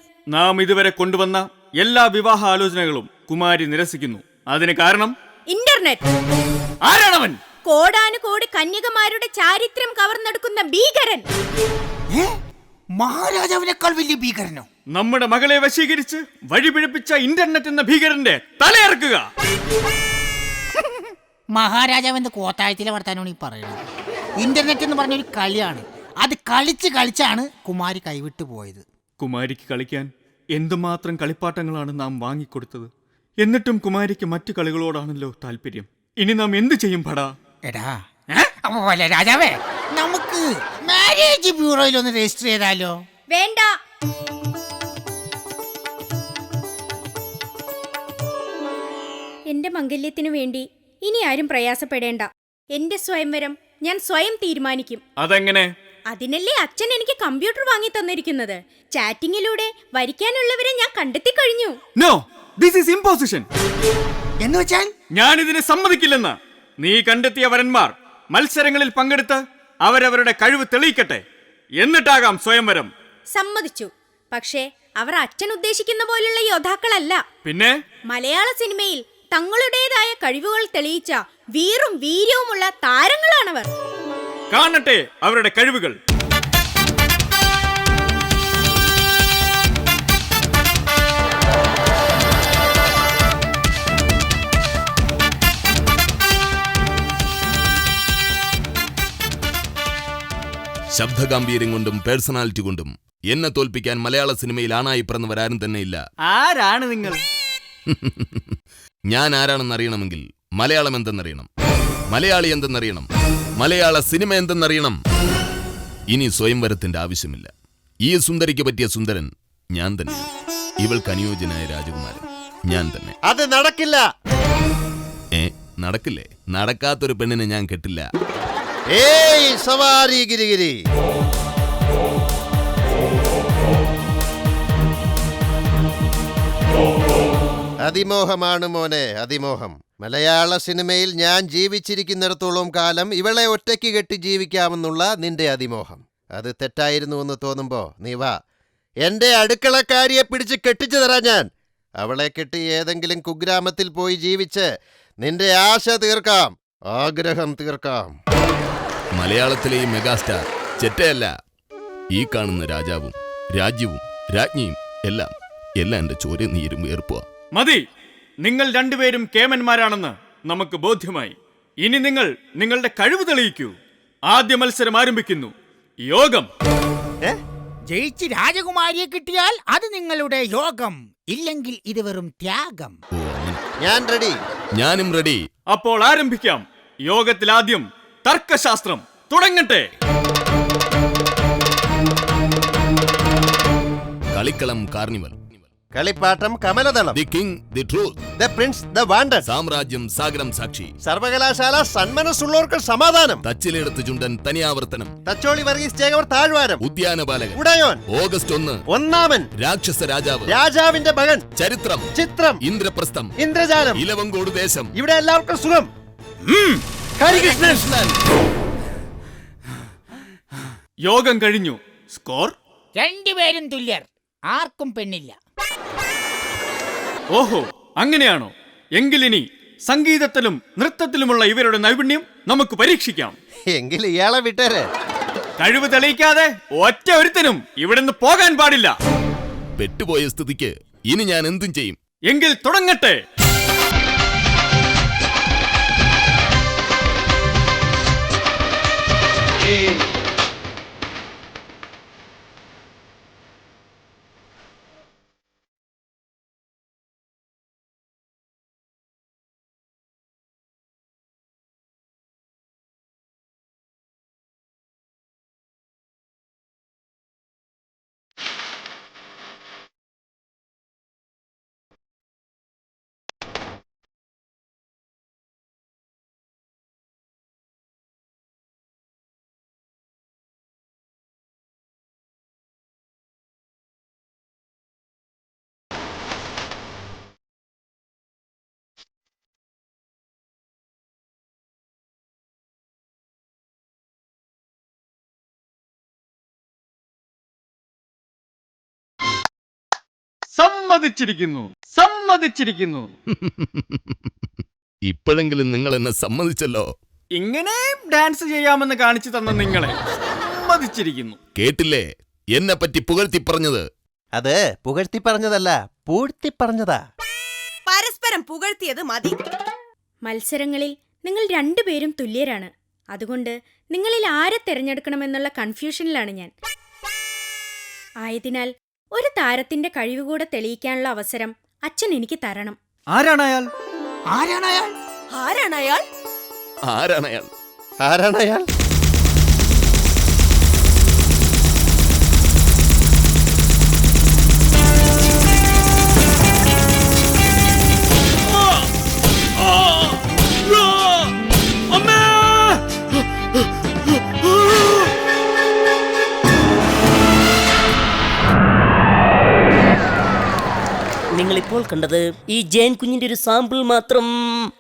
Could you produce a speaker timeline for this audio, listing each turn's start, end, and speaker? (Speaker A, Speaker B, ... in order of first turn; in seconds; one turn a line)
Speaker A: 0.3-5.1
Speaker B: 5.5-6.0
Speaker A: 6.8-7.4
Speaker B: 7.7-11.2
Speaker C: 12.1-12.4
Speaker C: 13.0-14.7
Speaker A: 14.9-19.3
Speaker C: 20.8-23.8
Speaker C: 24.4-28.9
Speaker A: 29.2-32.9
Speaker A: 33.4-37.3
Speaker C: 37.7-43.0
Speaker B: 43.3-43.7
Speaker B: 49.5-55.0
Speaker A: 55.2-55.7
Speaker B: 56.1-61.8
Speaker A: 62.0-63.5
Speaker C: 64.4-64.9
Speaker A: 65.2-71.2
Speaker A: 71.8-72.9
Speaker B: 73.3-77.2
Speaker A: 77.5-77.8
Speaker B: 78.1-83.7
Speaker A: 84.5-86.0
Speaker D: 101.0-106.0
Speaker A: 106.3-107.2
Speaker D: 107.9-108.6
Speaker D: 109.1-111.5
Speaker D: 112.1-113.1
Speaker D: 113.6-115.0
Speaker D: 116.1-117.5
Speaker D: 118.1-120.3
Speaker D: 120.8-123.2
Speaker E: 123.3-124.0
Speaker D: 125.3-128.1
Speaker E: 128.9-130.8
Speaker E: 137.8-148.3
Speaker E: 149.0-151.5
Speaker E: 152.0-154.7
Speaker E: 155.2-158.1
Speaker D: 159.2-161.3
Speaker D: 162.1-167.2
Speaker A: 167.6-167.8
Speaker A: 168.4-173.8
Speaker A: 174.3-175.5
Speaker A: 176.1-176.5
Speaker C: 177.9-183.0
Speaker D: 183.2-183.6
Speaker E: 183.8-184.4
Speaker D: 184.8-185.4
Speaker A: 185.7-189.9
Speaker D: 194.3-195.6
Speaker E: 195.9-197.2
Speaker D: 197.2-198.2
Speaker E: 198.4-199.4
Speaker D: 199.5-200.9
Speaker E: 201.1-203.4
Speaker D: 203.5-205.1
Speaker E: 205.3-206.8
Speaker D: 206.8-208.8
Speaker E: 207.5-208.0
Speaker E: 208.9-209.5
Speaker D: 209.6-210.5
Speaker E: 210.5-211.4
Speaker D: 211.6-212.1
Speaker E: 212.2-212.6
Speaker D: 212.6-213.3
Speaker E: 213.4-214.0
Speaker D: 213.9-214.9
Speaker E: 215.0-215.9
Speaker E: 217.2-218.2
Speaker A: 221.1-222.6
Speaker C: 223.0-225.4
Speaker A: 227.3-233.4
Speaker E: 233.7-234.9
Speaker A: 235.6-238.9
Speaker D: 239.8-242.0
Speaker A: 242.3-243.2
Speaker A: 300.5-303.1
Speaker D: 303.3-304.3
Speaker D: 305.1-306.9
Speaker A: 307.4-311.4
Speaker D: 311.6-313.9
Speaker E: 314.4-317.0
Speaker F: 317.9-319.4
Speaker B: 320.2-326.5
Speaker B: 328.2-332.8
Speaker A: 333.1-333.7
Speaker C: 334.3-334.9
Speaker F: 335.3-336.0
Speaker D: 336.9-337.5
Speaker E: 338.0-338.6
Speaker A: 348.5-348.9
Speaker A: 349.6-351.3
Speaker A: 351.9-352.8
Speaker G: 361.4-364.7